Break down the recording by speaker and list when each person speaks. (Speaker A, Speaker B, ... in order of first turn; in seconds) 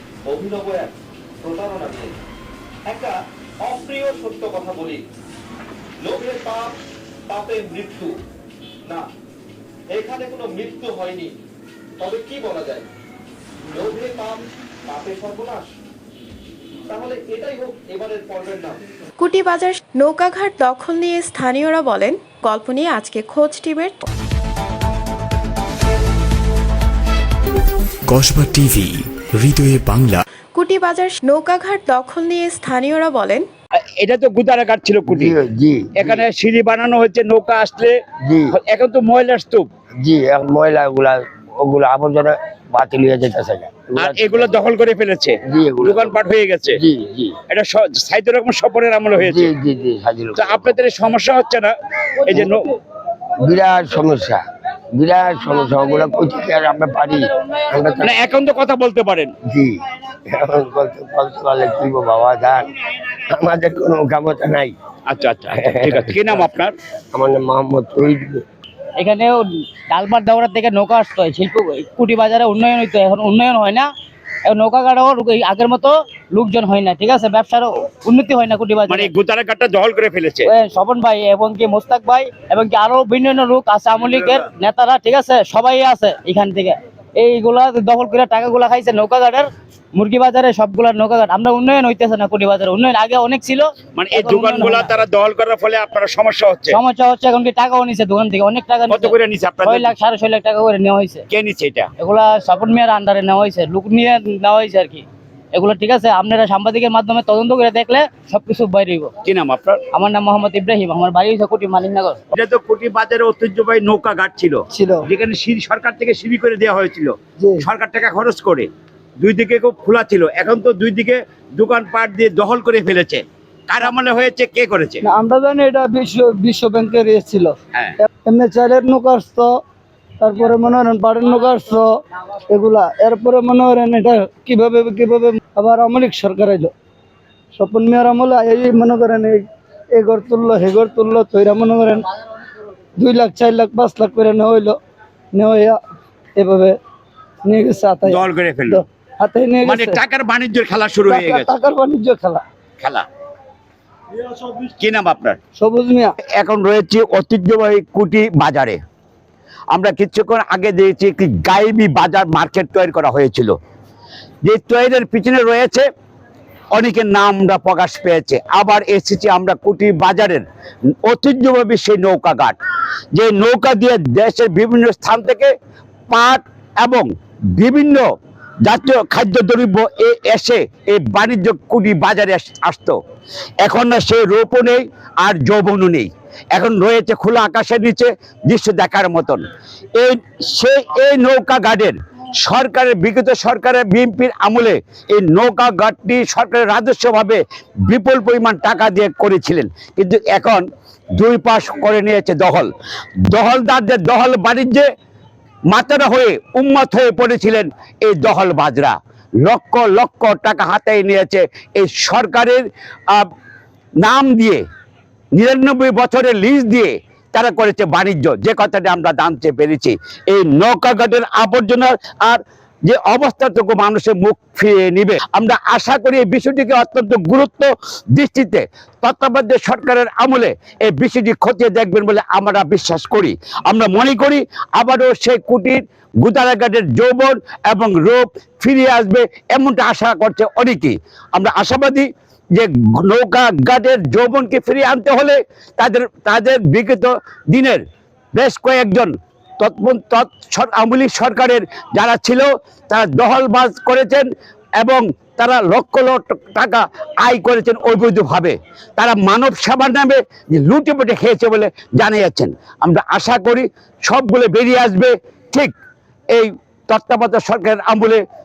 Speaker A: 0.3-0.9, 1.4-2.2, 3.6-5.0, 6.0-6.7, 7.3-8.1, 9.9-11.3, 12.0-12.9, 13.7-15.7, 16.9-18.8
Speaker B: 19.2-24.0, 30.6-33.5
Speaker C: 28.1-30.2
Speaker D: 33.8-35.4, 36.0-38.0, 38.5-39.7, 44.0-46.8, 47.5-49.5, 50.4-51.7, 52.2-52.7, 58.0-59.3, 65.1-66.7, 78.9-80.5, 84.0-84.4, 94.0-96.8, 98.9-99.9, 101.3-101.9, 109.2-109.8, 112.3-118.7, 119.2-125.0, 148.1-148.8, 149.7-151.6, 152.8-153.1, 154.8-155.4, 156.4-158.8, 159.7-163.5, 164.4-165.8, 166.7-170.4, 171.1-172.6, 173.1-175.5, 176.1-178.0, 178.7-183.0, 183.6-189.4, 190.0-200.6, 201.2-202.7, 203.3-204.9, 205.7-213.3, 214.0-214.6, 215.4-247.8, 248.3-254.3, 254.8-265.7, 266.4-268.2
Speaker E: 35.1-36.3, 38.2-38.6, 40.0-44.6, 45.5-47.4, 49.2-50.8, 53.4-54.4, 55.0-58.2, 59.5-64.7, 65.5-66.4, 67.1-68.4
Speaker F: 69.0-73.9, 74.5-79.1, 80.5-94.9, 96.7-101.2, 102.0-109.1, 109.9-112.2
Speaker G: 114.7-115.1, 117.4-117.7, 125.0-129.5, 130.2-131.9, 132.5-136.7, 137.6-142.1, 143.0-144.8, 145.3-145.8, 146.3-146.8, 147.4-150.0, 151.1-152.4, 155.6-156.1